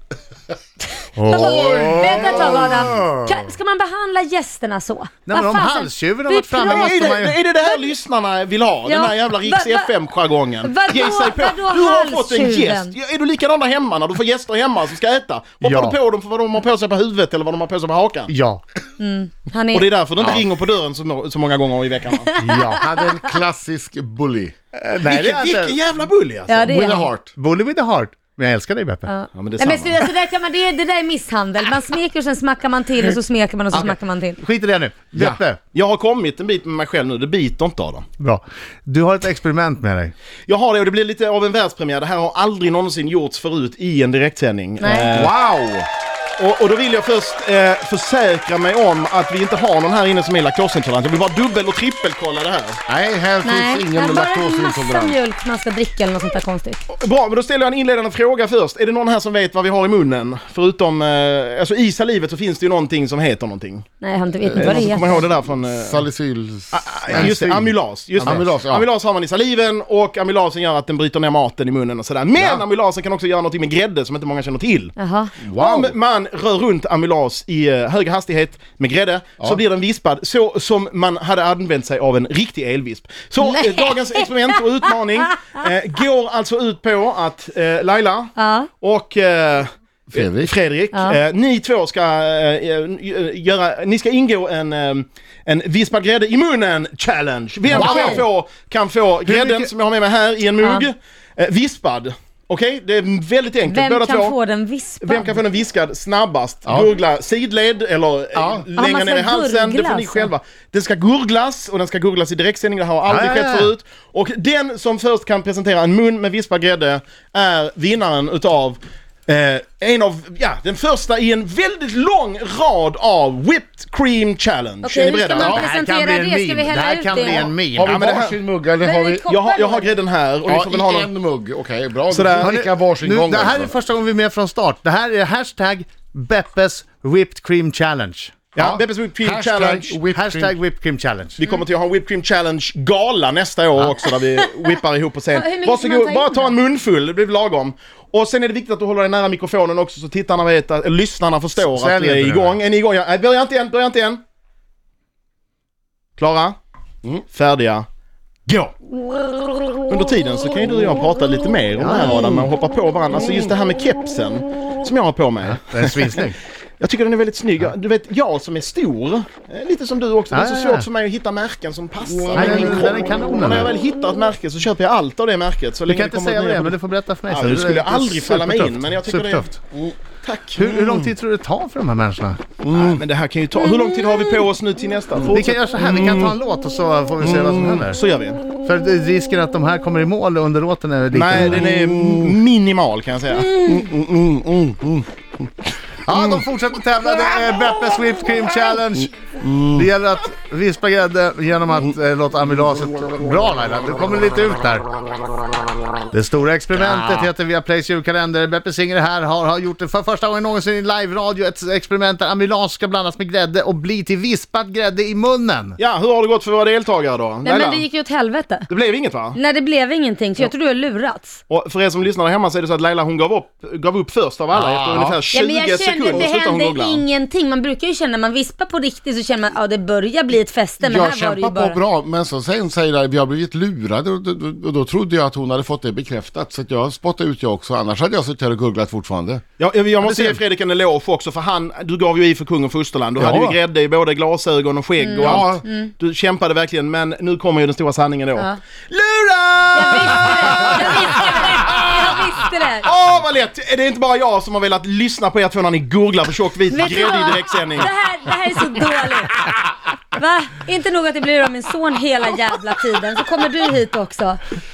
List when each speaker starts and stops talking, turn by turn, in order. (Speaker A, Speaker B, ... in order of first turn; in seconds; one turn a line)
Speaker A: 1.1-3.2
Speaker B: 1.2-7.8
Speaker C: 1.3-2.9
Speaker A: 5.3-7.3
Speaker D: 6.6-18.3
Speaker B: 8.8-10.0
Speaker B: 10.6-12.9
Speaker A: 15.6-15.9
Speaker A: 18.3-18.6
Speaker B: 19.0-19.9
Speaker D: 19.7-22.3
Speaker B: 22.1-23.0
Speaker A: 22.4-22.8
Speaker C: 22.7-24.5
Speaker A: 24.7-25.8
Speaker D: 25.0-26.7
Speaker B: 26.5-27.1
Speaker C: 26.6-27.3
Speaker A: 27.3-29.1
Speaker B: 29.1-34.4
Speaker D: 29.3-30.0
Speaker A: 33.7-35.6
Speaker C: 35.1-35.4
Speaker D: 35.7-38.0
Speaker A: 38.2-40.1
Speaker D: 40.5-45.3
Speaker B: 44.8-45.1
Speaker C: 45.1-45.9
Speaker D: 46.4-52.8
Speaker C: 52.9-55.2
Speaker B: 53.4-56.8
Speaker D: 56.9-63.9
Speaker B: 64.0-65.2
Speaker C: 64.4-67.7
Speaker D: 64.5-66.0
Speaker D: 66.7-74.9
Speaker A: 67.1-68.4
Speaker C: 68.2-68.8
Speaker C: 72.3-72.6
Speaker B: 75.0-75.6
Speaker C: 75.5-75.9
Speaker D: 75.5-104.4
Speaker B: 83.4-85.7
Speaker B: 88.4-88.7
Speaker C: 90.1-90.5
Speaker B: 90.9-91.2
Speaker C: 97.7-98.2
Speaker B: 97.8-98.2
Speaker A: 99.2-99.7
Speaker B: 100.6-100.8
Speaker B: 103.7-105.4
Speaker D: 105.0-125.6
Speaker C: 108.3-108.6
Speaker B: 108.8-110.3
Speaker A: 113.1-113.7
Speaker B: 124.8-127.5
Speaker A: 125.3-128.2
Speaker C: 127.7-129.2
Speaker D: 127.8-128.4
Speaker B: 128.8-129.9
Speaker D: 129.2-131.1
Speaker C: 130.4-133.7
Speaker D: 132.1-132.5
Speaker A: 132.4-138.6
Speaker D: 138.5-140.0
Speaker C: 139.2-140.6
Speaker A: 140.1-141.4
Speaker D: 141.4-154.2
Speaker B: 145.3-146.5
Speaker A: 151.6-152.6
Speaker D: 156.2-156.6
Speaker D: 157.2-157.8
Speaker D: 158.5-158.7
Speaker D: 159.9-166.2
Speaker A: 161.8-162.4
Speaker A: 165.6-166.4
Speaker D: 166.8-179.6
Speaker A: 170.3-170.8
Speaker A: 172.3-173.7
Speaker A: 175.9-179.6
Speaker D: 180.2-180.8
Speaker A: 180.6-182.4
Speaker C: 182.6-183.0
Speaker D: 182.7-186.3
Speaker A: 185.3-188.0
Speaker D: 187.8-188.4
Speaker A: 188.6-191.7
Speaker D: 191.1-193.7
Speaker C: 191.7-192.2
Speaker B: 193.5-193.8
Speaker C: 193.7-195.0
Speaker A: 196.1-199.1
Speaker C: 199.4-199.8
Speaker A: 199.7-204.8
Speaker A: 206.1-215.8
Speaker D: 215.8-217.8
Speaker B: 217.4-218.7
Speaker D: 218.7-219.4
Speaker B: 219.3-221.4
Speaker D: 221.5-227.0
Speaker A: 224.5-225.2
Speaker B: 225.3-231.8
Speaker C: 230.8-239.4
Speaker D: 239.6-251.8
Speaker C: 240.0-240.3
Speaker C: 243.2-243.6
Speaker B: 245.0-245.9
Speaker C: 245.2-245.6
Speaker B: 249.7-252.9
Speaker D: 252.8-257.9
Speaker B: 256.7-259.4
Speaker B: 260.1-264.4